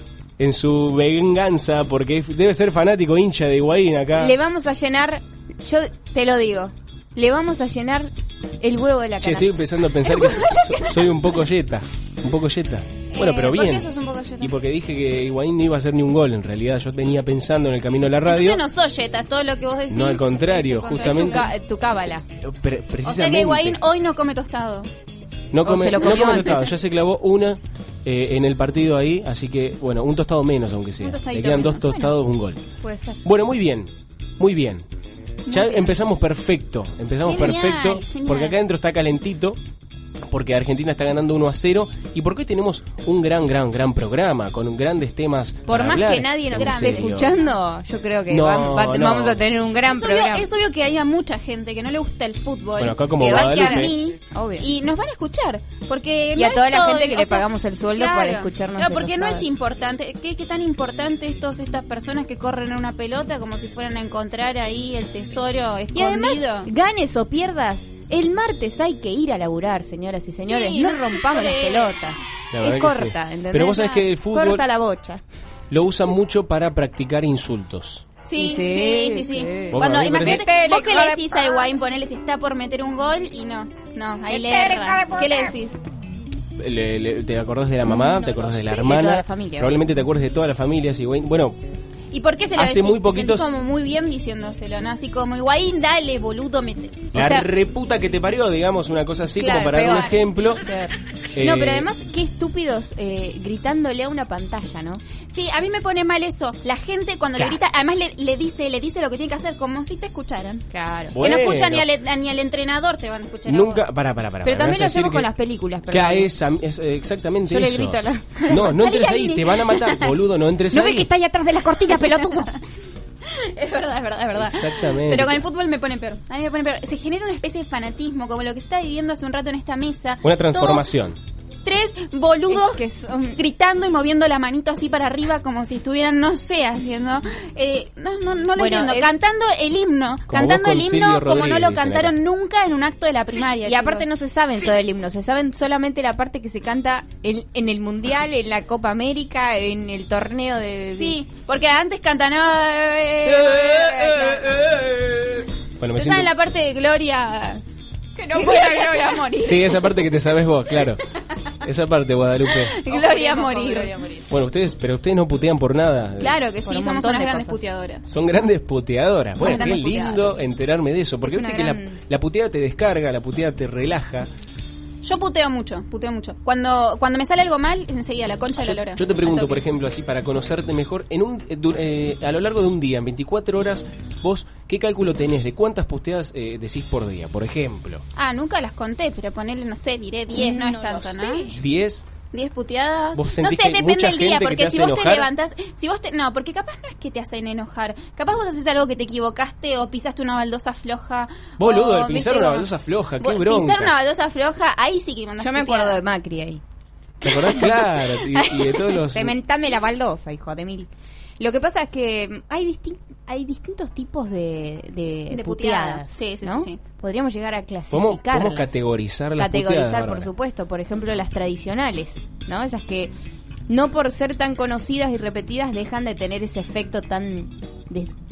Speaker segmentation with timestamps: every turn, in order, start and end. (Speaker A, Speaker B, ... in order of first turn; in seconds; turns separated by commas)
Speaker A: 0.4-4.3, Speaker B: 4.2-9.5, Speaker A: 9.2-18.6, Speaker C: 13.1-14.3, Speaker C: 18.2-21.5, Speaker A: 19.9-21.5, Speaker B: 21.0-22.2, Speaker A: 22.4-23.8, Speaker C: 23.0-24.9, Speaker A: 25.5-32.6, Speaker B: 25.6-26.7, Speaker C: 26.1-26.6, Speaker C: 31.0-32.1, Speaker B: 32.8-33.2, Speaker A: 33.2-34.9, Speaker A: 35.5-39.6, Speaker C: 35.5-36.0, Speaker C: 37.3-38.6, Speaker A: 40.3-47.4, Speaker B: 45.7-50.5, Speaker A: 48.3-49.5, Speaker C: 49.9-66.7, Speaker A: 52.8-53.9, Speaker B: 53.5-54.7, Speaker B: 56.4-59.5, Speaker B: 65.9-75.2, Speaker C: 70.4-72.1, Speaker A: 72.5-74.6, Speaker A: 75.7-78.0, Speaker C: 78.2-85.8, Speaker B: 78.4-81.7, Speaker A: 79.7-80.4, Speaker B: 84.3-85.6, Speaker A: 86.6-91.6, Speaker B: 87.8-89.8, Speaker C: 92.1-97.5, Speaker A: 92.6-93.5, Speaker A: 97.1-100.6, Speaker B: 99.4-105.0, Speaker C: 99.5-100.1, Speaker A: 101.3-101.9, Speaker C: 105.3-110.7, Speaker B: 110.7-111.2, Speaker A: 111.1-111.9, Speaker C: 111.2-113.8, Speaker A: 113.5-115.3, Speaker B: 114.4-116.3, Speaker A: 115.9-121.1, Speaker B: 117.5-120.0, Speaker B: 120.7-122.5, Speaker C: 123.3-130.9, Speaker A: 124.3-125.4, Speaker A: 130.2-131.2, Speaker C: 131.6-132.8, Speaker B: 132.5-133.4, Speaker C: 133.4-144.1, Speaker B: 138.6-139.2, Speaker A: 140.3-142.2, Speaker B: 143.6-151.2, Speaker C: 150.9-154.8, Speaker B: 153.3-154.6, Speaker A: 155.8-156.3, Speaker C: 155.9-157.6, Speaker B: 158.2-159.3, Speaker C: 158.3-159.8, Speaker A: 159.4-161.0, Speaker A: 161.6-162.8, Speaker C: 162.7-163.9, Speaker B: 162.9-164.2, Speaker A: 164.3-166.4, Speaker C: 166.2-168.0, Speaker B: 166.6-167.7, Speaker A: 168.1-174.3, Speaker C: 169.4-170.2, Speaker B: 169.4-169.8, Speaker B: 171.2-172.0, Speaker C: 175.0-179.6, Speaker A: 178.6-188.0, Speaker C: 188.1-191.5, Speaker B: 190.3-191.5, Speaker A: 191.5-192.1, Speaker C: 192.3-202.7, Speaker A: 193.1-195.3, Speaker A: 201.6-204.0, Speaker C: 203.2-206.0, Speaker B: 205.4-206.6, Speaker A: 207.2-209.4, Speaker B: 208.6-210.9, Speaker B: 211.4-218.9, Speaker C: 215.3-216.8, Speaker A: 217.9-220.3, Speaker B: 219.4-223.1, Speaker B: 223.7-228.1